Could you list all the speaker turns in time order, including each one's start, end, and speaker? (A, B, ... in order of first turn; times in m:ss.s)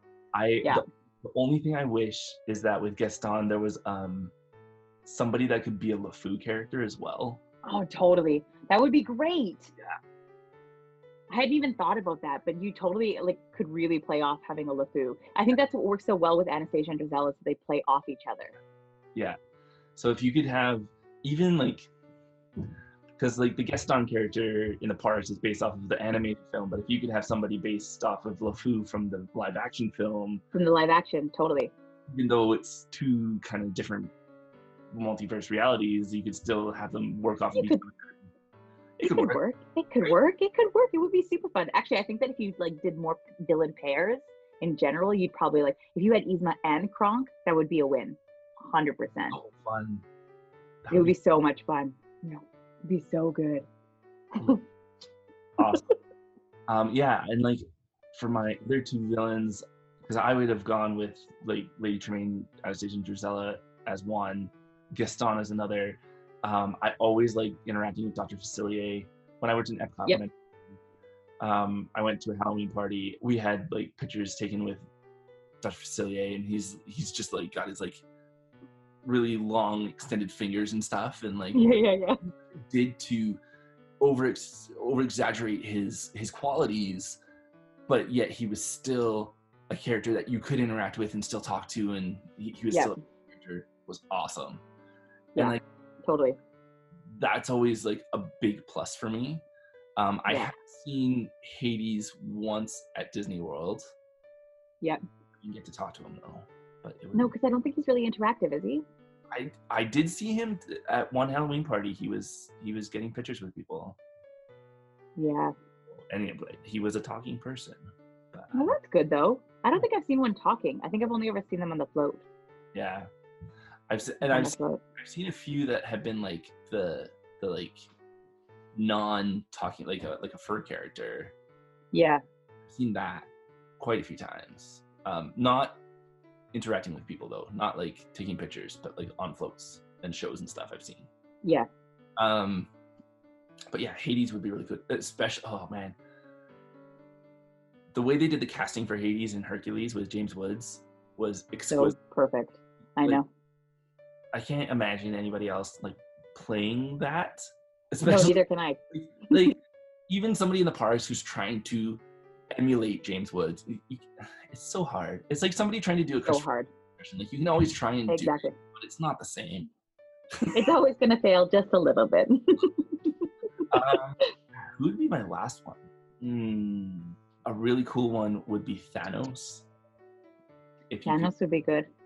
0:00.3-0:04.3 A
0:05.0-0:07.4 A
0:07.6-0:09.7 B
0:11.3-0:18.6 B
0:20.0-0:21.9 A
0:23.2-0:30.4 A
0:30.5-0:31.7 B
0:32.1-0:34.1 A
0:34.9-0:38.3 A
0:37.6-0:37.8 B
0:39.0-0:39.4 A
0:39.1-0:49.4 B
0:49.3-0:50.0 A
0:50.8-0:51.2 A
0:50.9-0:53.7 B
0:54.4-0:54.6 B
0:55.6-0:55.8 A
0:56.7-0:57.6 A
0:58.1-1:10.3 A
1:11.4-1:14.8 A
1:15.6-1:18.0 A
1:19.0-1:21.8 A
1:21.5-1:22.2 B
1:22.5-1:23.4 A
1:24.0-1:27.2 A
1:27.9-1:34.6 A
1:32.7-1:33.0 B
1:35.4-1:36.4 B
1:35.4-1:35.6 A
1:37.1-1:39.4 A
1:40.0-1:43.9 A
1:45.4-1:47.3 A
1:47.1-1:48.8 B
1:49.3-1:54.0 A
1:55.2-1:55.5 B
1:55.9-1:58.7 A
1:58.5-2:02.2 B
2:02.7-2:03.1 A
2:03.9-2:07.8 A
2:04.2-2:04.8 B
2:08.7-2:11.3 A
2:11.9-2:12.2 B
2:12.7-2:13.3 A
2:13.8-2:15.8 A
2:16.5-2:21.1 A
2:22.2-2:22.7 A
2:23.7-2:26.0 A
2:27.9-2:32.0 A
2:31.7-2:33.3 B
2:34.3-2:38.4 A
2:38.0-2:38.8 B
2:38.9-2:39.6 A
2:40.1-2:46.4 A
2:46.3-2:46.7 B
2:47.0-2:49.7 A
2:48.1-2:48.6 B
2:50.6-2:53.1 B
2:53.7-2:59.7 A
3:00.9-3:01.3 A
3:01.0-3:01.9 B